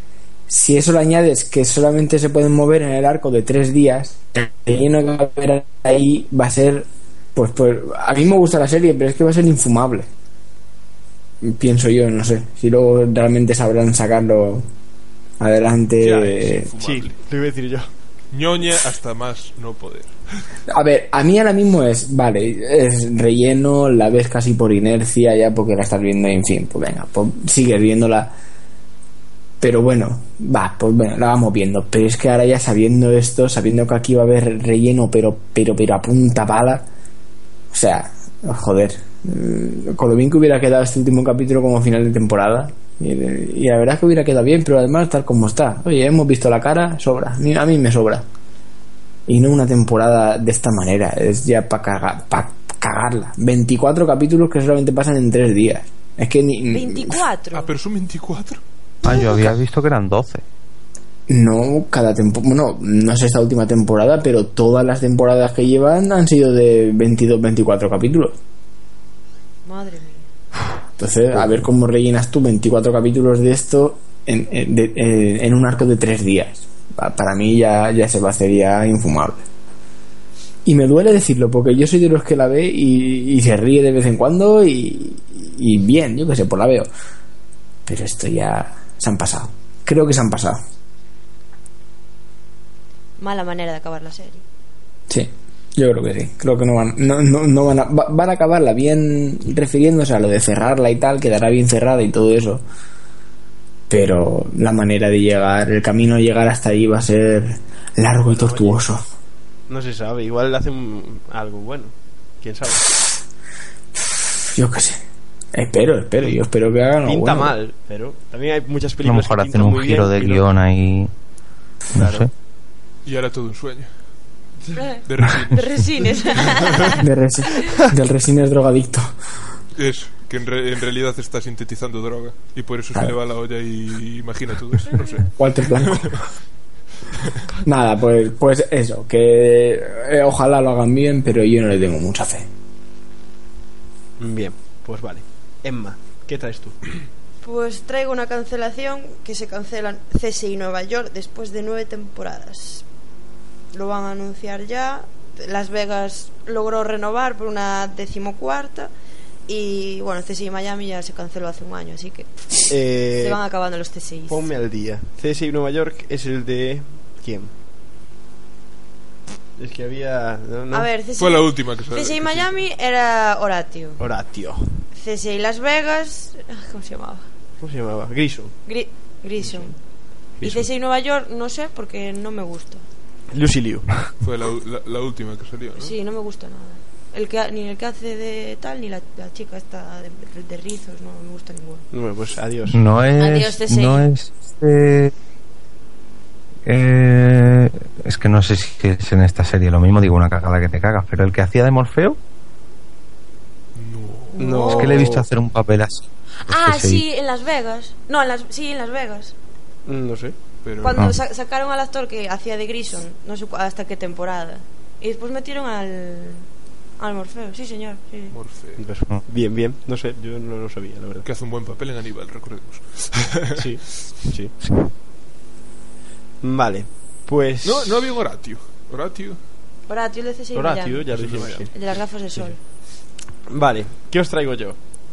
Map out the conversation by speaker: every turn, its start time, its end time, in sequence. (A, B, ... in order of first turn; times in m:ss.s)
0:00.5-0:10.1 A
0:11.4-0:14.7 A
0:15.4-0:16.7 A
0:16.0-0:17.2 B
0:16.8-0:17.9 C
0:18.3-0:20.2 B
0:20.7-0:28.3 A
0:29.6-0:36.9 A
0:37.7-0:48.3 A
0:49.3-0:57.2 A
0:56.7-0:57.7 D
0:57.5-0:58.6 B
0:59.0-1:00.4 E
0:59.0-0:59.5 D
1:01.3-1:08.4 A
1:09.6-1:10.3 D
1:11.0-1:19.4 A
1:20.6-1:26.9 A
1:27.9-1:30.6 A
1:33.2-1:34.4 D
1:35.1-1:42.6 A
1:43.9-1:49.0 A
1:48.2-1:48.8 C
1:49.7-1:52.9 C
1:54.1-1:55.0 A
1:55.5-1:57.6 A
1:57.0-2:00.4 C
1:59.0-2:01.1 E
2:01.9-2:02.3 C
2:01.9-2:02.3 E
2:03.0-2:03.9 B
2:04.8-2:07.0 D
2:05.1-2:06.7 B
2:07.0-2:09.1 A
2:09.8-2:16.2 B
2:15.4-2:16.2 A
2:17.6-2:22.5 A
2:24.2-2:26.8 C
2:27.4-2:32.8 D
2:33.7-2:38.9 D
2:39.5-2:42.3 D
2:42.7-2:43.4 C
2:43.2-2:44.5 D
2:44.3-2:47.5 C
2:49.6-2:50.9 C
2:50.7-2:54.0 D
2:51.2-2:52.5 B
2:54.0-2:54.8 C
2:54.9-2:57.2 D
2:57.6-2:58.6 C
2:58.7-2:59.8 D
2:59.4-2:59.7 C
3:00.4-3:00.7 C
3:00.4-3:02.8 D
3:03.3-3:03.9 C
3:04.2-3:06.0 B
3:05.8-3:11.9 D
3:11.9-3:12.8 C
3:12.7-3:15.1 E
3:13.2-3:14.1 D
3:16.7-3:22.2 E
3:23.8-3:24.4 B
3:24.4-3:25.1 D
3:24.4-3:25.3 C
3:24.8-3:27.0 E
3:26.4-3:29.3 D
3:29.9-3:30.4 C
3:30.6-3:31.0 B
3:30.8-3:36.5 D
3:37.0-3:38.4 D
3:38.3-3:38.9 B
3:38.8-3:41.3 C
3:41.2-3:43.6 B
3:43.6-3:44.9 C
3:46.4-3:48.1 C
3:47.6-3:49.4 B
3:49.9-3:51.2 D
3:50.5-3:51.8 C
3:51.1-3:51.7 B
3:51.7-3:52.6 D
3:53.5-3:54.8 C